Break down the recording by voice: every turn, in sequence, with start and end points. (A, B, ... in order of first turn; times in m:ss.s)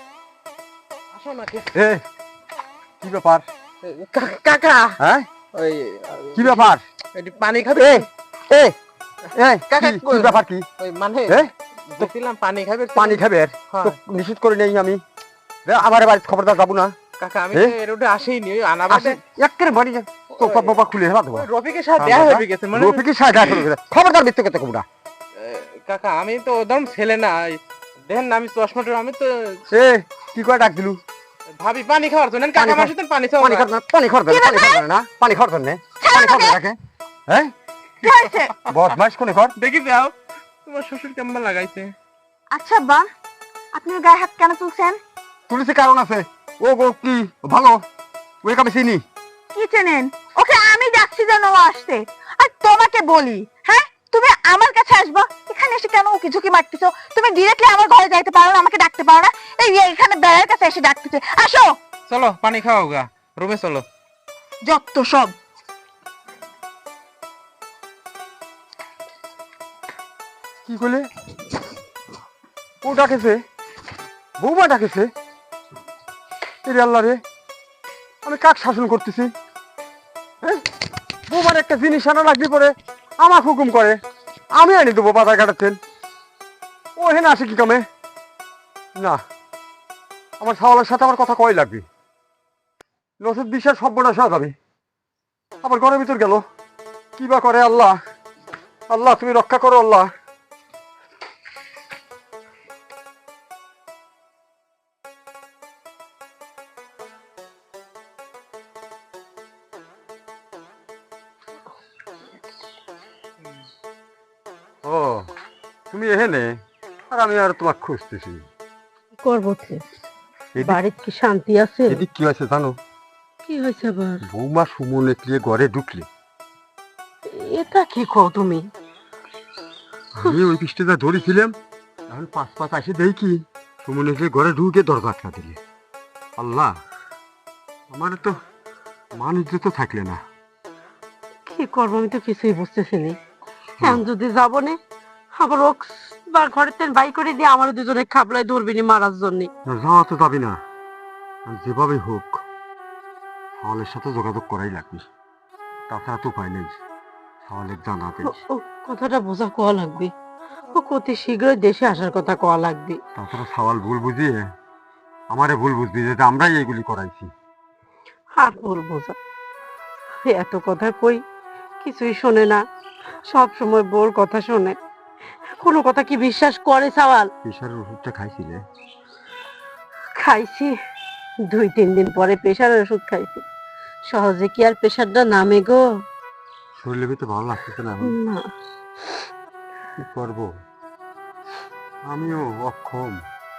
0:01.1-0:01.7 A
0:01.7-0:02.0 B
0:03.0-0:03.5 B
0:03.8-0:05.0 A
0:05.0-0:05.3 B
0:05.5-0:08.1 A
0:06.3-0:06.8 B
0:07.8-0:08.7 B
0:09.3-0:10.7 B
0:09.7-0:14.0 A
0:11.3-0:12.1 B
0:12.9-0:15.0 B
0:15.6-0:17.0 B
0:17.2-0:19.2 A
0:18.9-0:24.9 B
0:20.4-0:23.6 A
0:25.4-0:29.6 A
0:29.7-0:31.0 B
0:31.6-0:33.7 A
0:32.6-0:37.5 B
0:34.3-0:34.8 C
0:36.0-0:36.6 C
0:38.0-0:38.5 C
0:38.7-0:39.6 B
0:39.6-0:40.1 A
0:40.6-0:41.9 A
0:42.5-0:43.0 C
0:43.7-0:45.0 C
0:45.5-0:47.8 B
0:48.4-0:49.0 B
0:49.5-1:01.8 C
1:02.1-1:03.8 A
1:04.7-1:05.4 C
1:10.6-1:11.1 B
1:12.8-1:13.4 B
1:14.4-1:15.1 B
1:16.6-1:17.2 B
1:18.2-1:19.3 B
1:21.3-1:24.0 B
1:24.6-1:25.8 B
1:27.0-1:27.8 B
1:30.4-1:31.9 B
1:33.2-1:34.6 B
1:35.6-1:36.4 B
1:37.2-1:38.0 B
1:38.9-1:40.1 B
1:54.8-1:55.3 B
1:55.9-1:56.6 B
1:57.1-1:58.4 B
1:59.2-1:59.8 D
2:00.6-2:02.0 D
2:01.9-2:02.8 B
2:03.4-2:04.2 D
2:04.2-2:06.1 B
2:07.3-2:08.6 D
2:10.1-2:11.6 B
2:12.1-2:15.6 B
2:16.4-2:16.8 B
2:17.9-2:18.4 B
2:19.2-2:20.2 B
2:21.5-2:23.2 D
2:23.8-2:24.8 D
2:25.4-2:29.5 D
2:29.6-2:30.6 B
2:31.5-2:32.4 B
2:33.6-2:35.1 B
2:35.9-2:36.8 B
2:37.4-2:38.4 B
2:38.2-2:40.1 D
2:40.7-2:43.0 D
2:43.1-2:44.4 B
2:45.3-2:47.3 B
2:48.4-2:49.2 D
2:50.2-2:51.2 D
2:51.8-2:52.6 D
2:53.3-2:54.8 D
2:55.5-2:57.3 D
2:57.4-2:58.6 B
3:00.2-3:00.7 D
3:01.5-3:03.4 D
3:04.1-3:05.8 D
3:06.8-3:08.2 B
3:08.0-3:08.4 D
3:10.0-3:10.5 B
3:12.1-3:13.2 B